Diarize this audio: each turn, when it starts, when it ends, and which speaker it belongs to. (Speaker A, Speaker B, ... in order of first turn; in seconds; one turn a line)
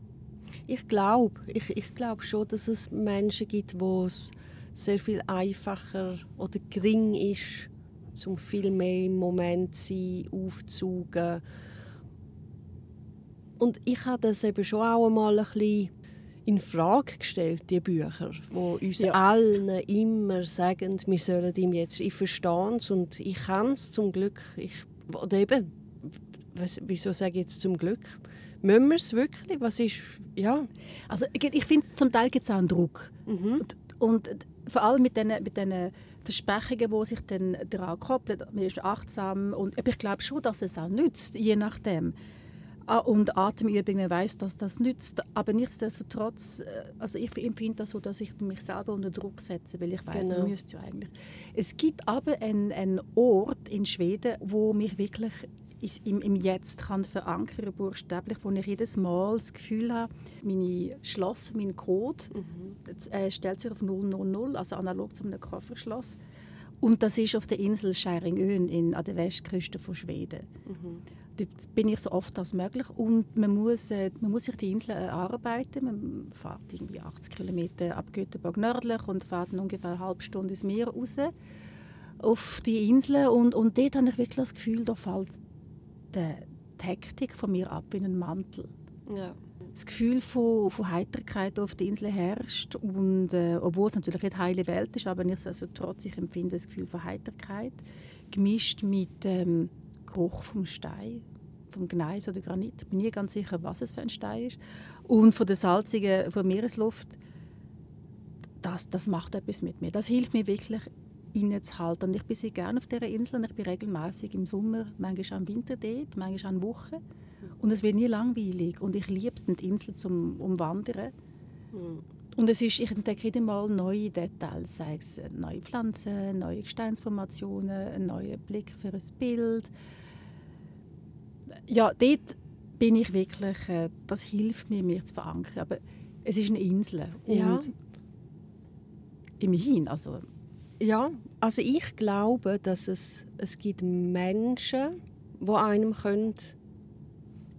Speaker A: 0.7-11.4
Speaker A: 13.6-15.9
Speaker A: 16.5-30.7
Speaker B: 31.1-42.1
Speaker A: 33.3-33.6
Speaker B: 42.9-66.2
Speaker A: 50.1-50.5
Speaker A: 62.3-62.8
Speaker B: 66.8-70.5
Speaker A: 70.7-71.0
Speaker B: 71.4-81.3
Speaker B: 82.2-85.4
Speaker B: 86.1-88.7
Speaker A: 89.1-89.4
Speaker B: 89.8-97.8
Speaker B: 98.3-107.2
Speaker B: 108.6-117.0
Speaker B: 117.6-121.1
Speaker A: 121.7-122.0
Speaker B: 122.4-129.7
Speaker B: 131.7-137.7
Speaker A: 137.3-137.7
Speaker B: 139.4-140.2
Speaker A: 140.8-146.6